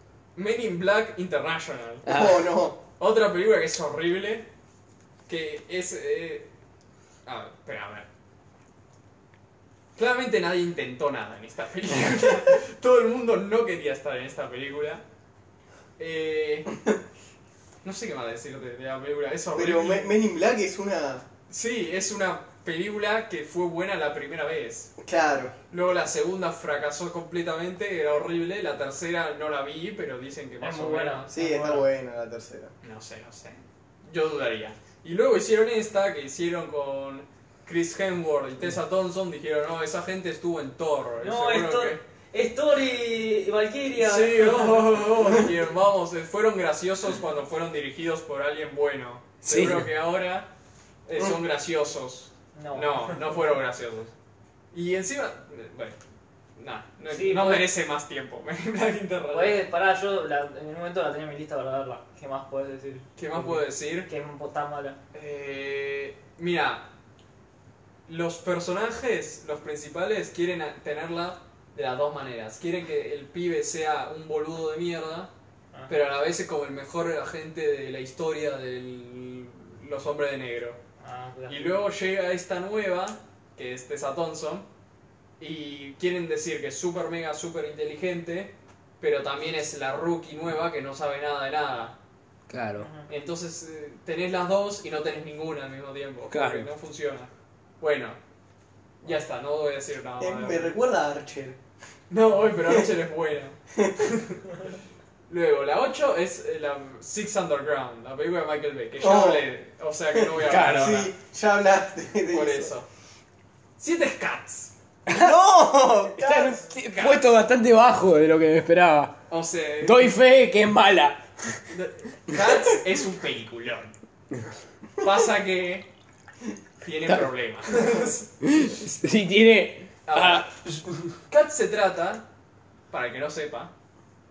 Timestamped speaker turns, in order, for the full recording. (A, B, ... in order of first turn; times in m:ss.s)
0:00.4-0:02.1 A
0:02.1-0:02.5 B
0:02.1-0:02.8 C
0:03.0-0:04.5 A
0:05.3-0:06.5 A
0:07.3-0:08.1 A
0:10.0-0:15.0 A
0:16.0-0:16.8 A
0:17.8-0:20.1 A
0:19.5-0:21.3 C
0:21.5-0:24.9 A
0:25.0-0:25.5 C
0:25.7-0:31.5 A
0:30.6-0:31.9 D
0:31.3-0:32.7 C
0:32.8-0:42.0 A
0:41.2-0:45.1 D
0:44.0-0:50.5 A
0:49.4-0:49.9 B
0:51.1-0:54.1 A
0:52.6-0:53.4 D
0:54.7-0:56.0 A
0:56.6-0:59.6 A
0:57.1-0:57.7 D
0:59.3-1:05.0 D
1:03.2-1:04.1 A
1:05.1-1:06.9 A
1:08.1-1:15.3 A
1:15.9-1:20.8 A
1:21.0-1:21.8 D
1:21.5-1:24.7 A
1:25.4-1:32.0 A
1:32.5-1:32.9 B
1:32.8-1:33.1 D
1:33.1-1:37.3 A
1:36.3-1:36.7 B
1:37.8-1:38.2 A
1:39.0-1:40.8 A
1:40.2-1:41.6 C
1:42.1-1:44.6 A
1:45.3-1:51.1 A
1:49.0-1:49.5 C
1:50.1-1:52.7 C
1:50.5-1:50.9 B
1:52.3-1:52.9 A
1:53.8-1:54.7 A
1:55.1-1:55.4 B
1:55.1-1:56.6 C
1:56.2-1:59.2 B
1:56.7-1:57.3 A
1:59.3-2:00.2 A
1:59.8-2:01.6 B
2:01.7-2:03.9 A
2:05.0-2:05.9 A
2:06.8-2:08.3 A
2:08.4-2:11.1 B
2:10.1-2:10.5 A
2:11.3-2:12.3 A
2:12.9-2:13.7 A